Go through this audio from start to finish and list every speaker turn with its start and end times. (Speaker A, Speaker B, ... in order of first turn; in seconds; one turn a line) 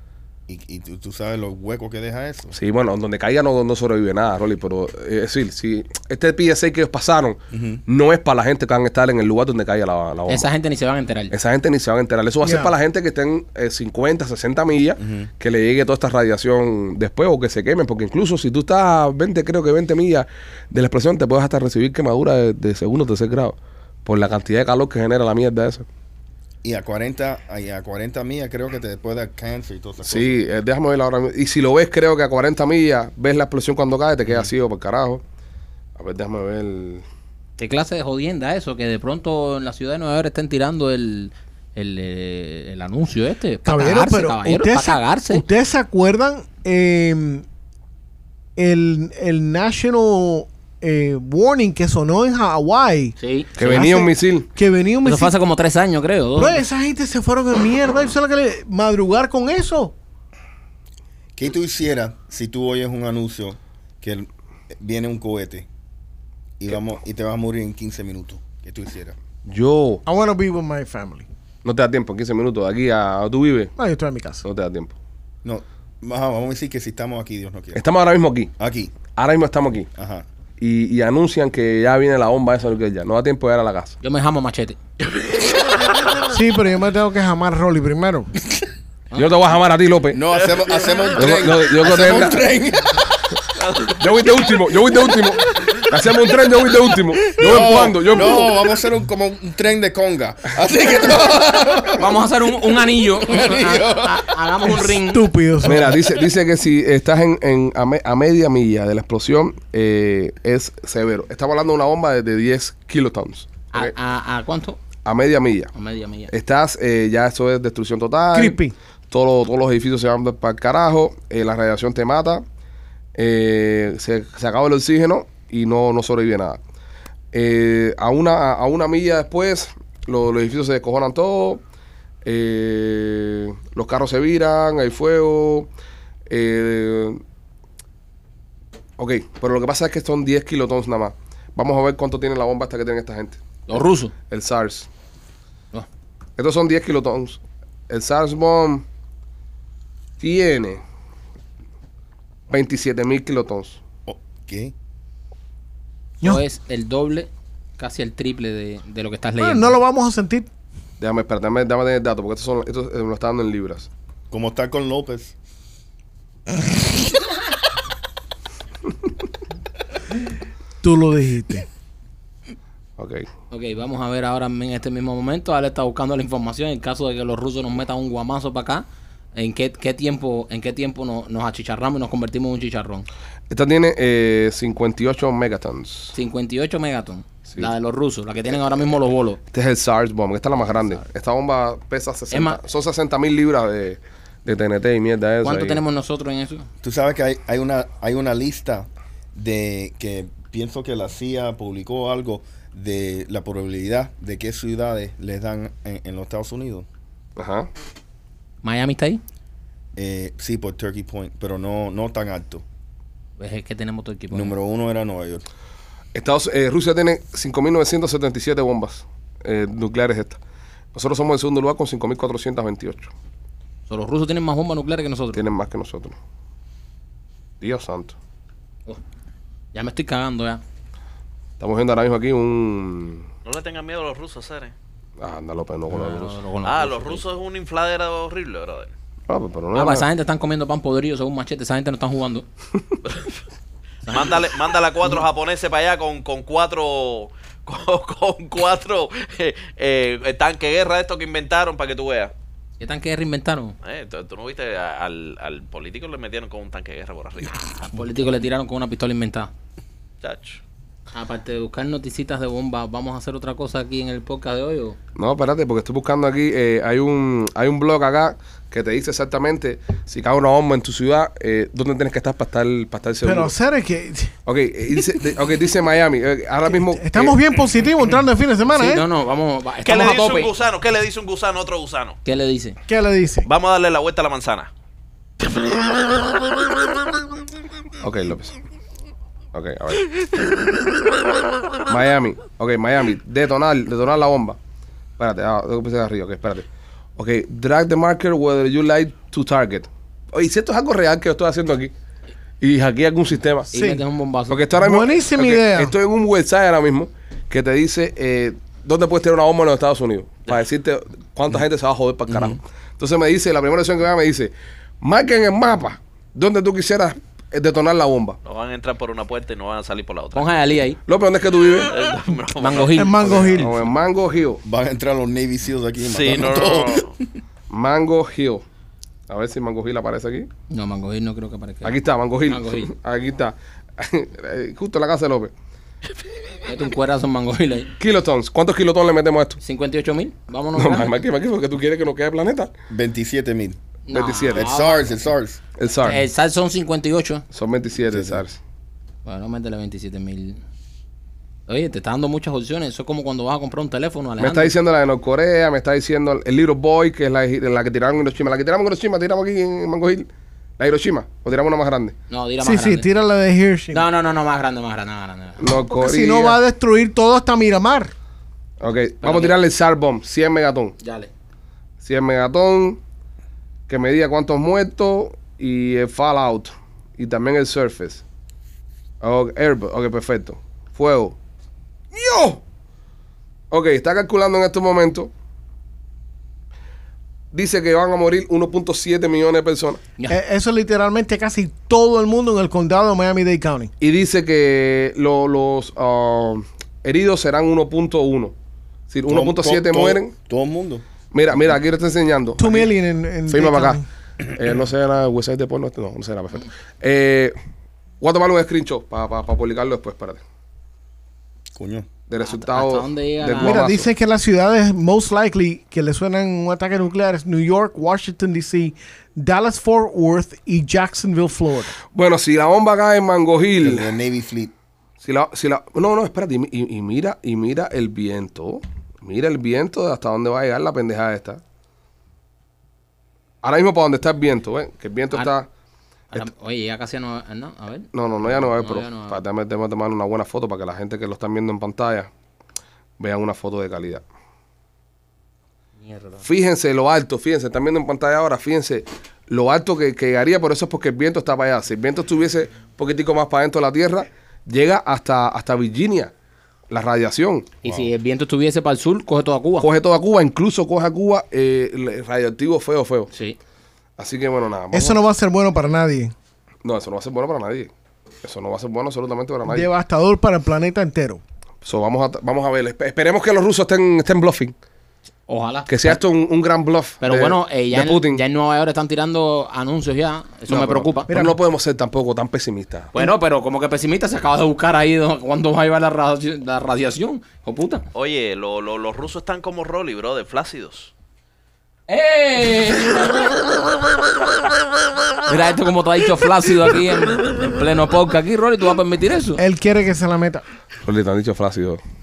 Speaker A: 0.5-2.5
Speaker B: 2.5-10.5
Speaker A: 7.5-7.8
Speaker C: 10.3-11.3
Speaker B: 11.3-25.9
Speaker D: 12.4-12.7
Speaker A: 15.0-15.3
Speaker A: 26.6-30.4
Speaker B: 30.0-35.2
Speaker B: 36.0-37.0
Speaker C: 37.6-45.4
Speaker D: 43.6-47.4
Speaker D: 48.6-55.3
Speaker C: 53.2-53.5
Speaker B: 53.6-54.5
Speaker C: 55.0-56.6
Speaker D: 56.4-59.9
Speaker A: 61.4-65.7
Speaker A: 66.6-69.2
Speaker B: 69.5-70.0
Speaker D: 70.0-71.3
Speaker B: 71.6-73.7
Speaker D: 73.8-74.4
Speaker B: 74.4-74.9
Speaker A: 75.4-77.8
Speaker B: 77.8-78.5
Speaker A: 78.6-78.9
Speaker B: 79.1-79.9
Speaker A: 79.9-80.2
Speaker B: 80.6-84.0
Speaker C: 84.0-84.8
Speaker D: 86.3-88.3
Speaker B: 89.2-90.2
Speaker A: 90.1-93.0
Speaker B: 91.2-92.4
Speaker E: 93.6-94.0
Speaker B: 93.9-98.6
Speaker A: 97.3-102.2
Speaker C: 102.0-105.3
Speaker A: 103.2-104.7
Speaker D: 104.8-106.0
Speaker B: 105.6-113.9
Speaker C: 113.7-114.8
Speaker B: 115.0-115.7
Speaker C: 115.7-116.3
Speaker B: 116.3-118.6
Speaker D: 118.3-118.7
Speaker B: 119.1-122.4
Speaker B: 123.1-126.6
Speaker B: 127.3-131.6
Speaker B: 132.2-135.7
Speaker B: 136.3-137.2
Speaker B: 139.0-143.4
Speaker C: 143.7-144.1
Speaker B: 144.3-144.9
Speaker B: 146.4-148.8
Speaker B: 150.2-150.8
Speaker B: 152.5-153.8
Speaker A: 154.1-154.7
Speaker C: 156.2-159.8
Speaker D: 159.4-160.5
Speaker B: 161.0-163.9
Speaker A: 164.3-165.3
Speaker D: 170.8-171.7
Speaker B: 173.0-173.3
Speaker C: 173.5-178.8
Speaker C: 179.3-183.1
Speaker B: 183.5-186.2
Speaker C: 186.1-189.4
Speaker B: 189.5-195.8
Speaker C: 192.3-192.6
Speaker C: 195.4-196.7
Speaker A: 196.8-206.8
Speaker B: 207.4-207.7
Speaker C: 208.6-209.2
Speaker A: 209.9-212.6
Speaker C: 213.4-214.5
Speaker A: 214.3-215.4
Speaker B: 216.1-220.4
Speaker B: 220.9-223.1
Speaker C: 223.9-225.4
Speaker B: 225.3-226.2
Speaker B: 227.6-228.2
Speaker C: 229.7-230.6
Speaker B: 231.6-233.3
Speaker E: 233.4-234.7
Speaker B: 235.2-236.4
Speaker C: 235.9-237.2
Speaker E: 236.6-238.9
Speaker B: 239.3-240.1
Speaker C: 239.7-242.4
Speaker C: 244.1-244.4
Speaker E: 244.1-252.3
Speaker C: 252.8-253.7
Speaker E: 253.8-257.6
Speaker C: 257.4-259.5
Speaker E: 260.2-260.6
Speaker C: 261.1-265.0
Speaker B: 265.1-273.5
Speaker D: 273.2-274.3
Speaker B: 274.4-277.4
Speaker D: 276.7-279.1
Speaker C: 278.7-280.5
Speaker E: 279.8-282.2
Speaker C: 282.2-282.8
Speaker D: 282.9-283.5
Speaker E: 283.4-284.7
Speaker B: 288.0-288.6
Speaker B: 289.5-290.1
Speaker B: 291.9-294.6
Speaker B: 295.2-296.6
Speaker B: 297.2-301.9
Speaker B: 302.6-303.7
Speaker C: 303.7-304.7
Speaker D: 303.7-304.0
Speaker B: 304.5-318.4
Speaker D: 304.8-305.9
Speaker A: 312.3-312.6
Speaker E: 318.4-320.5
Speaker C: 320.3-321.0
Speaker B: 321.1-322.0
Speaker E: 321.8-323.8
Speaker C: 322.5-323.6
Speaker D: 322.9-323.7
Speaker B: 323.4-324.6
Speaker A: 324.6-327.4
Speaker E: 326.0-327.1
Speaker B: 327.7-328.6
Speaker B: 329.3-330.5
Speaker C: 330.7-331.9
Speaker B: 331.8-335.5
Speaker C: 332.5-332.9
Speaker C: 336.6-337.9
Speaker B: 338.0-339.6
Speaker C: 339.6-341.2
Speaker B: 340.8-342.7
Speaker A: 342.9-343.8
Speaker C: 344.1-345.1
Speaker B: 344.1-344.7
Speaker A: 344.5-345.6
Speaker B: 345.8-346.2
Speaker C: 346.0-347.4
Speaker B: 347.5-348.6
Speaker A: 348.1-348.4
Speaker C: 349.2-350.6
Speaker C: 351.7-354.7
Speaker B: 354.4-360.3
Speaker B: 360.8-362.1
Speaker C: 362.3-363.1
Speaker D: 362.6-364.0
Speaker C: 363.9-365.6
Speaker B: 365.6-366.6
Speaker D: 365.9-368.1
Speaker B: 368.8-370.9
Speaker C: 369.2-369.6
Speaker C: 371.0-371.3
Speaker B: 372.0-373.0
Speaker B: 373.9-378.2
Speaker B: 379.2-381.4
Speaker B: 382.1-382.6
Speaker B: 383.7-385.3
Speaker B: 387.5-390.0
Speaker D: 390.3-393.9
Speaker B: 394.0-398.5
Speaker B: 399.1-400.3
Speaker A: 399.3-401.0
Speaker B: 401.3-402.9
Speaker D: 402.6-404.0
Speaker B: 403.5-407.5
Speaker B: 408.2-410.4
Speaker A: 411.7-412.1
Speaker B: 412.3-414.1
Speaker C: 412.4-413.8
Speaker D: 413.6-421.9
Speaker B: 422.1-424.1
Speaker A: 423.8-424.7
Speaker B: 425.2-431.6
Speaker B: 433.6-435.7
Speaker C: 436.3-439.4
Speaker B: 438.1-442.3
Speaker B: 443.2-444.2
Speaker C: 446.0-446.4
Speaker B: 446.4-456.3
Speaker B: 456.9-457.7
Speaker A: 457.8-458.1
Speaker C: 457.8-459.9
Speaker B: 459.8-463.3
Speaker C: 463.3-463.6
Speaker B: 464.2-465.2
Speaker D: 464.9-466.3
Speaker B: 466.8-467.9
Speaker B: 468.4-469.9
Speaker D: 469.6-471.4
Speaker B: 471.8-474.7
Speaker C: 475.5-476.2
Speaker B: 475.9-478.4
Speaker C: 477.2-481.3
Speaker B: 480.7-483.1
Speaker D: 481.3-481.6
Speaker C: 483.1-488.1
Speaker E: 488.1-491.1
Speaker C: 492.1-493.6
Speaker C: 495.4-499.6
Speaker D: 499.6-500.6
Speaker B: 501.0-502.0